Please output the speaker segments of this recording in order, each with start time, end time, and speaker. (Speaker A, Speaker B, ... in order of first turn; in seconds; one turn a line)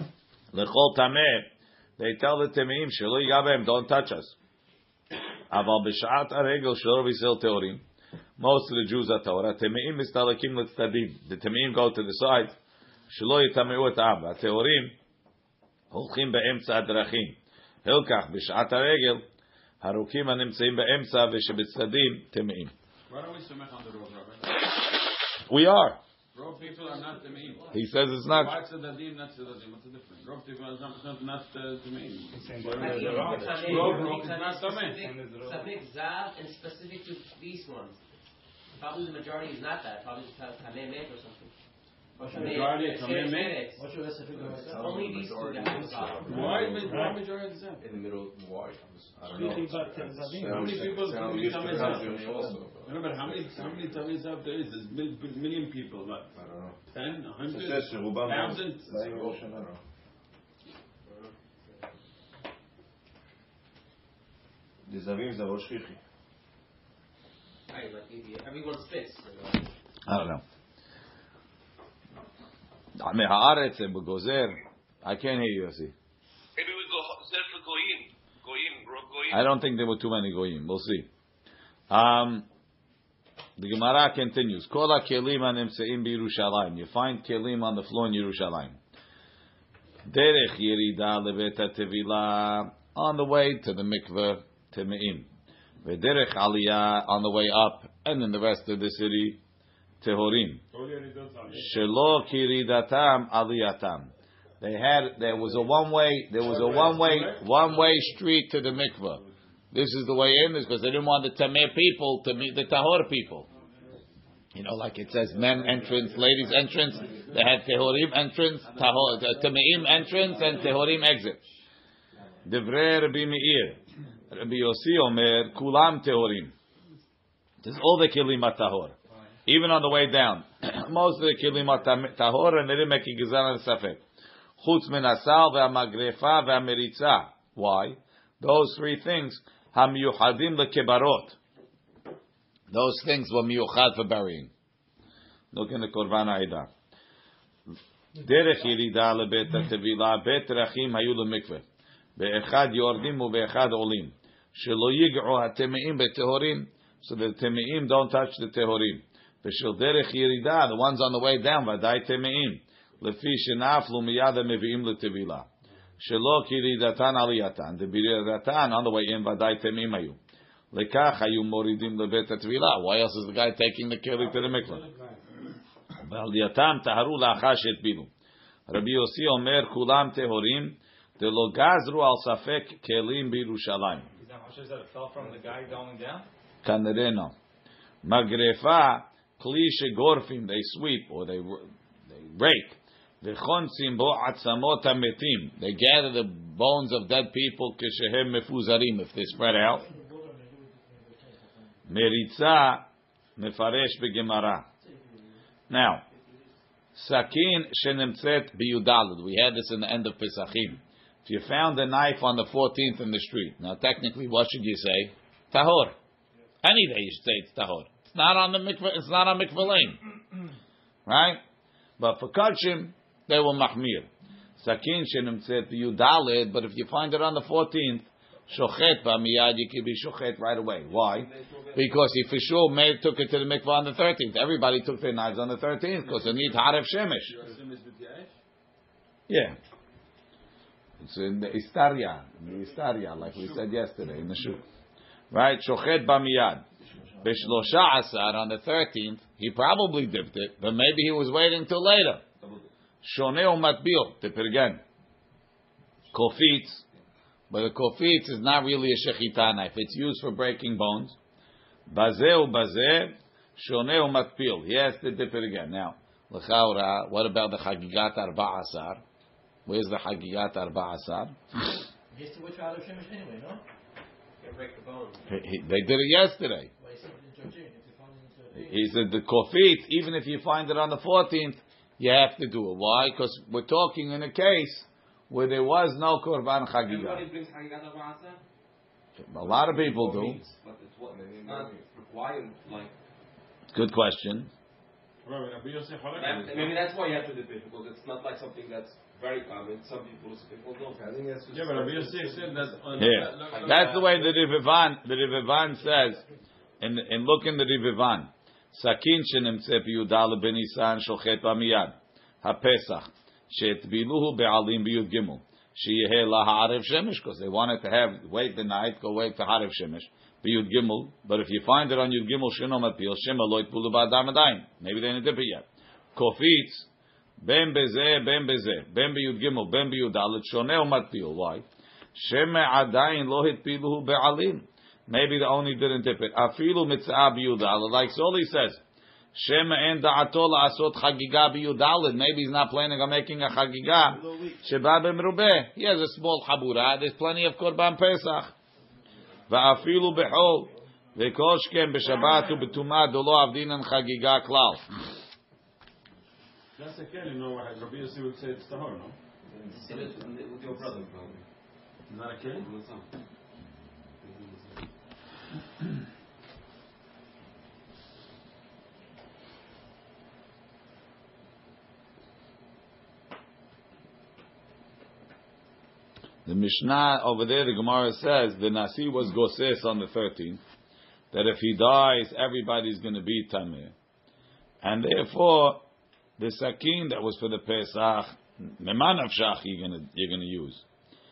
Speaker A: 0.5-4.3
Speaker A: 5.5-7.8
Speaker A: 8.4-12.6
Speaker A: 13.1-15.0
Speaker A: 15.9-19.2
Speaker A: 19.8-22.7
Speaker B: 23.1-24.6
Speaker A: 25.5-26.0
Speaker B: 26.3-27.7
Speaker C: 26.5-27.8
Speaker A: 27.7-28.6
Speaker B: 28.2-35.0
Speaker D: 32.3-34.2
Speaker C: 32.8-38.0
Speaker D: 34.9-35.7
Speaker C: 38.8-41.5
Speaker E: 42.2-42.8
Speaker B: 42.3-43.6
Speaker C: 42.3-43.8
Speaker E: 43.7-45.0
Speaker F: 44.3-47.1
Speaker C: 44.7-46.6
Speaker B: 46.2-47.9
Speaker D: 46.8-47.1
Speaker F: 47.8-53.9
Speaker D: 49.3-50.8
Speaker B: 50.4-52.1
Speaker B: 52.8-56.3
Speaker F: 56.3-56.8
Speaker B: 56.9-59.4
Speaker F: 57.5-59.8
Speaker F: 64.9-66.0
Speaker C: 67.7-69.3
Speaker A: 70.1-70.4
Speaker A: 73.0-75.9
Speaker G: 76.6-79.3
Speaker A: 79.3-81.1
Speaker A: 81.9-82.5
Speaker A: 83.6-88.8
Speaker A: 90.0-95.3
Speaker A: 95.8-99.4
Speaker A: 100.0-100.6
Speaker B: 100.7-101.8
Speaker A: 101.5-113.5
Speaker B: 106.4-108.2
Speaker A: 114.5-121.4
Speaker F: 115.4-117.3
Speaker A: 122.4-126.5
Speaker A: 127.6-128.9
Speaker A: 129.4-134.0
Speaker A: 134.6-141.4
Speaker A: 142.7-144.5
Speaker A: 145.5-146.7
Speaker A: 148.2-151.6
Speaker A: 152.2-165.5
Speaker A: 166.0-170.2
Speaker A: 170.7-174.8
Speaker B: 174.1-175.0
Speaker A: 176.0-178.1
Speaker A: 178.7-184.1
Speaker D: 184.2-186.3
Speaker A: 186.6-187.3
Speaker A: 188.0-199.8
Speaker E: 199.7-201.7
Speaker A: 201.9-204.7
Speaker E: 204.8-205.3
Speaker A: 205.7-206.0
Speaker A: 206.9-215.9
Speaker A: 216.6-220.0
Speaker A: 221.1-221.4
Speaker A: 222.0-237.3
Speaker F: 231.1-231.9
Speaker B: 236.0-236.7
Speaker B: 237.2-238.3
Speaker A: 239.3-239.6
Speaker A: 241.0-244.6
Speaker B: 243.2-243.6
Speaker A: 245.3-246.6
Speaker A: 247.2-252.2
Speaker A: 253.0-254.8
Speaker A: 256.1-256.8
Speaker A: 257.5-261.2
Speaker A: 261.9-269.0
Speaker A: 269.6-271.4
Speaker E: 272.1-273.6
Speaker C: 274.4-275.3
Speaker A: 275.3-276.7
Speaker E: 276.8-279.0
Speaker A: 278.5-287.2
Speaker F: 286.8-288.4
Speaker A: 289.2-290.4
Speaker F: 289.4-292.9
Speaker A: 293.7-294.5
Speaker B: 295.2-296.7
Speaker F: 296.1-304.2
Speaker B: 301.5-304.3
Speaker A: 303.0-306.2
Speaker A: 306.8-326.9
Speaker A: 327.4-338.8
Speaker A: 339.3-348.5
Speaker A: 349.5-354.9
Speaker B: 356.7-359.1
Speaker F: 359.5-361.4
Speaker C: 359.8-361.1
Speaker B: 362.1-362.7
Speaker F: 362.5-363.0
Speaker A: 376.4-380.6
Speaker A: 381.3-383.9
Speaker A: 384.8-385.8
Speaker A: 386.4-390.8